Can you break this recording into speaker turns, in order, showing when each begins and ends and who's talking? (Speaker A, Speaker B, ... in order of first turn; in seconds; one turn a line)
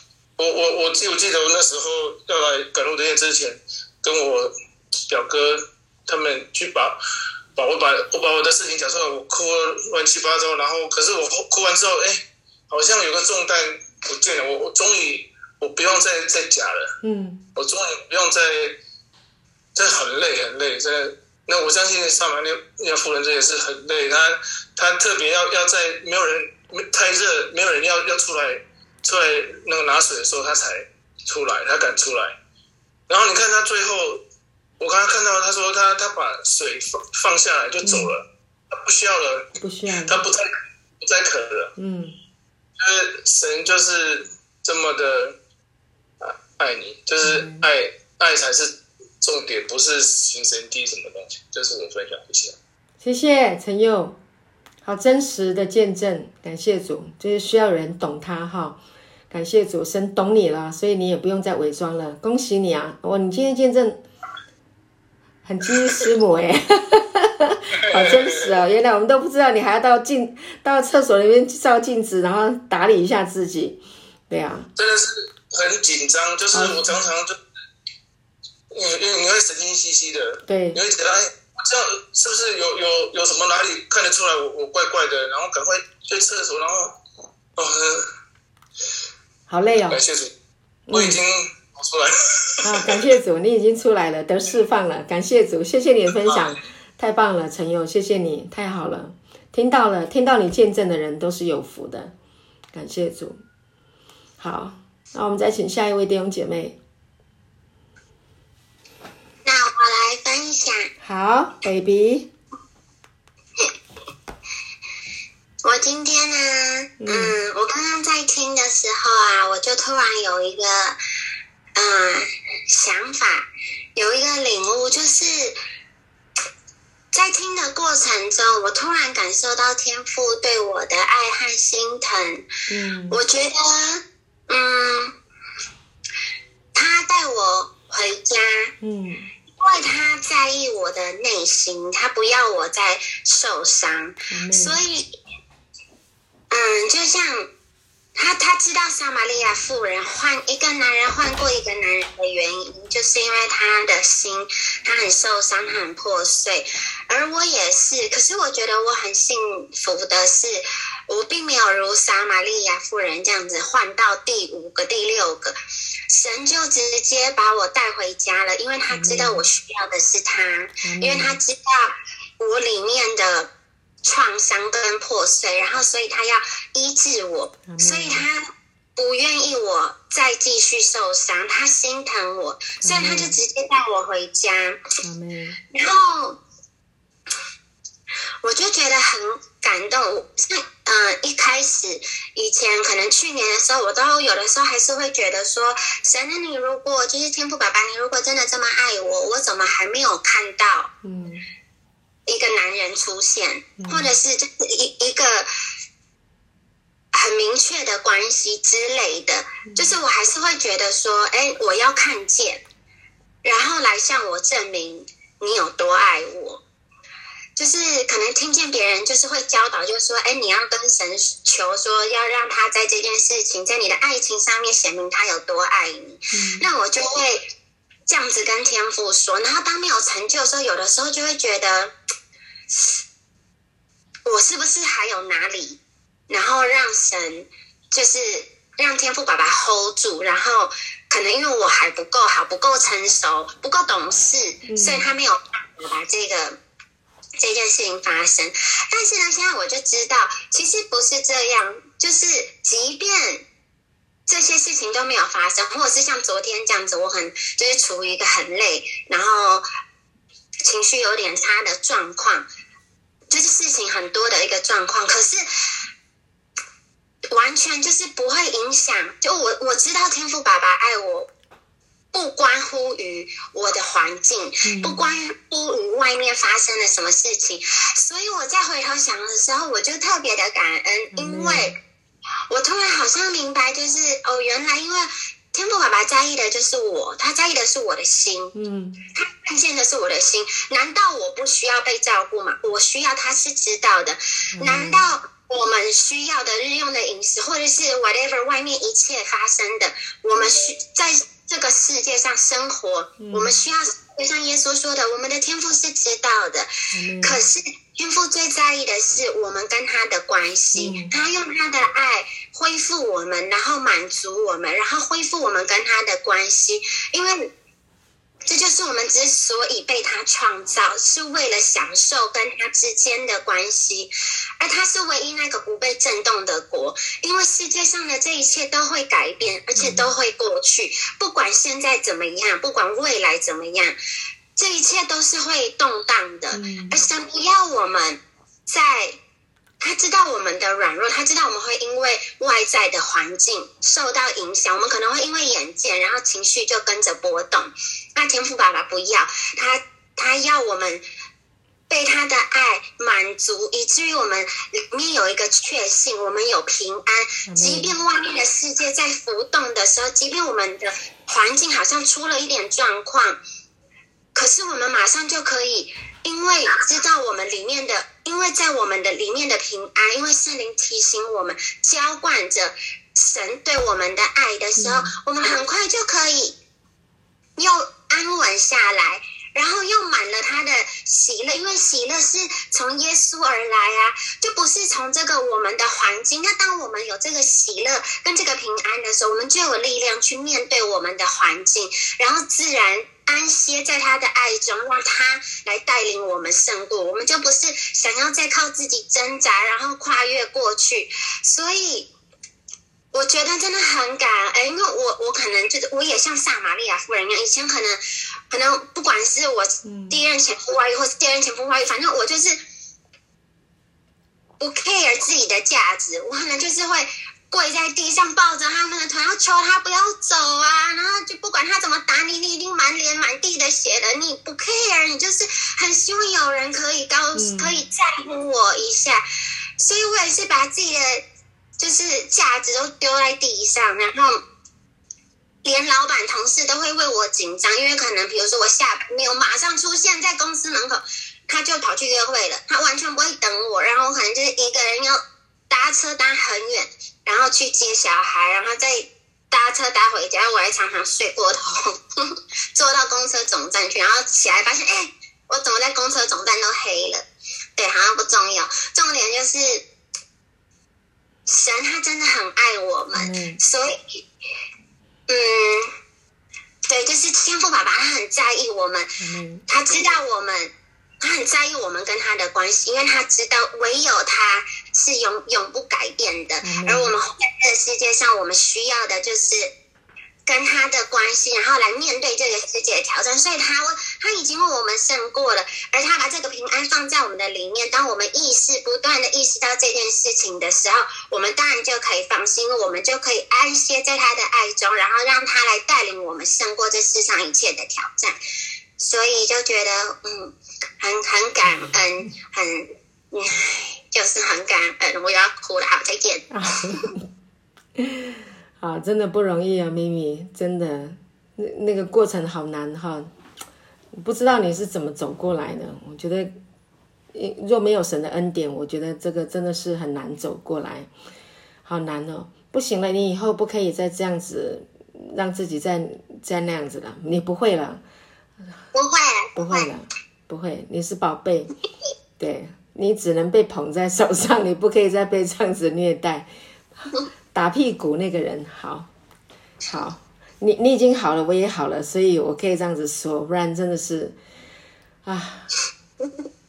Speaker A: 0.4-4.5
Speaker A: 5.1-7.0
Speaker A: 7.5-16.9
Speaker B: 17.0-17.4
Speaker A: 17.5-18.8
Speaker A: 19.7-32.4
Speaker A: 33.1-34.2
Speaker A: 34.8-39.5
Speaker B: 37.8-38.1
Speaker B: 39.6-40.2
Speaker A: 40.0-40.5
Speaker A: 41.0-41.7
Speaker B: 41.8-42.2
Speaker A: 42.8-45.4
Speaker A: 46.2-52.6
Speaker B: 47.2-47.7
Speaker B: 53.0-54.2
Speaker B: 54.8-64.0
Speaker B: 65.4-74.7
Speaker A: 67.9-68.3
Speaker A: 74.8-77.4
Speaker B: 76.5-77.0
Speaker A: 78.7-87.0
Speaker B: 80.5-80.8
Speaker A: 87.6-88.1
Speaker B: 89.5-90.0
Speaker A: 89.9-90.3
Speaker B: 90.9-91.2
Speaker A: 90.9-93.0
Speaker B: 92.6-102.1
Speaker B: 102.7-103.4
Speaker B: 104.4-106.8
Speaker C: 109.4-110.9
Speaker B: 111.0-112.3
Speaker C: 115.6-121.0
Speaker B: 117.0-117.4
Speaker C: 121.8-125.6
Speaker C: 127.1-132.5
Speaker B: 132.7-133.2
Speaker C: 133.1-135.1
Speaker C: 136.7-138.7
Speaker B: 138.8-139.3
Speaker C: 139.6-145.1
Speaker B: 144.3-144.8
Speaker C: 146.5-147.5
Speaker C: 148.2-165.5
Speaker C: 166.1-173.5
Speaker B: 168.9-169.4
Speaker B: 170.8-171.4
Speaker C: 174.0-178.4
Speaker B: 177.7-178.2
Speaker C: 178.9-184.8
Speaker B: 182.8-183.4
Speaker B: 185.0-185.6
Speaker C: 185.7-186.4
Speaker C: 188.4-200.9
Speaker B: 201.0-201.4
Speaker C: 202.3-205.5
Speaker B: 203.8-204.2
Speaker C: 207.1-212.6
Speaker B: 209.7-210.0
Speaker C: 213.4-216.6
Speaker C: 217.6-227.4
Speaker B: 226.3-226.7
Speaker C: 228.1-231.9
Speaker C: 232.7-233.0
Speaker C: 234.2-246.6
Speaker B: 244.7-245.1
Speaker C: 247.4-253.4
Speaker C: 254.3-259.6
Speaker C: 260.6-262.5
Speaker C: 263.3-265.4
Speaker C: 267.3-271.3
Speaker C: 272.1-281.8
Speaker B: 274.6-275.0
Speaker B: 281.1-281.8
Speaker C: 282.5-288.5
Speaker B: 288.5-289.0
Speaker C: 289.1-317.5
Speaker B: 294.5-295.0
Speaker B: 303.2-303.5
Speaker B: 306.9-307.4
Speaker B: 310.7-311.1
Speaker C: 318.4-333.9
Speaker B: 329.8-330.1
Speaker C: 334.6-339.2
Speaker B: 336.5-337.0
Speaker C: 339.8-351.0
Speaker C: 351.9-363.4
Speaker B: 357.4-357.9
Speaker C: 364.3-376.6
Speaker B: 374.8-375.1
Speaker C: 377.6-402.1
Speaker C: 403.1-412.6
Speaker B: 409.8-410.2
Speaker C: 414.6-429.2
Speaker B: 427.3-427.8
Speaker C: 429.8-431.2
Speaker C: 431.8-434.4
Speaker C: 435.6-459.9
Speaker C: 461.5-464.2
Speaker B: 463.1-463.6
Speaker C: 465.3-465.9
Speaker C: 466.9-469.1
Speaker B: 469.2-469.6
Speaker C: 469.7-479.7
Speaker B: 476.6-477.1
Speaker C: 480.4-498.4
Speaker C: 499.0-506.5
Speaker B: 506.5-507.2
Speaker B: 508.0-513.3
Speaker B: 514.1-516.5
Speaker B: 517.3-521.1
Speaker B: 521.8-528.0
Speaker C: 528.9-529.9
Speaker B: 529.5-531.7
Speaker B: 532.4-539.1
Speaker B: 539.9-544.4
Speaker B: 545.2-545.7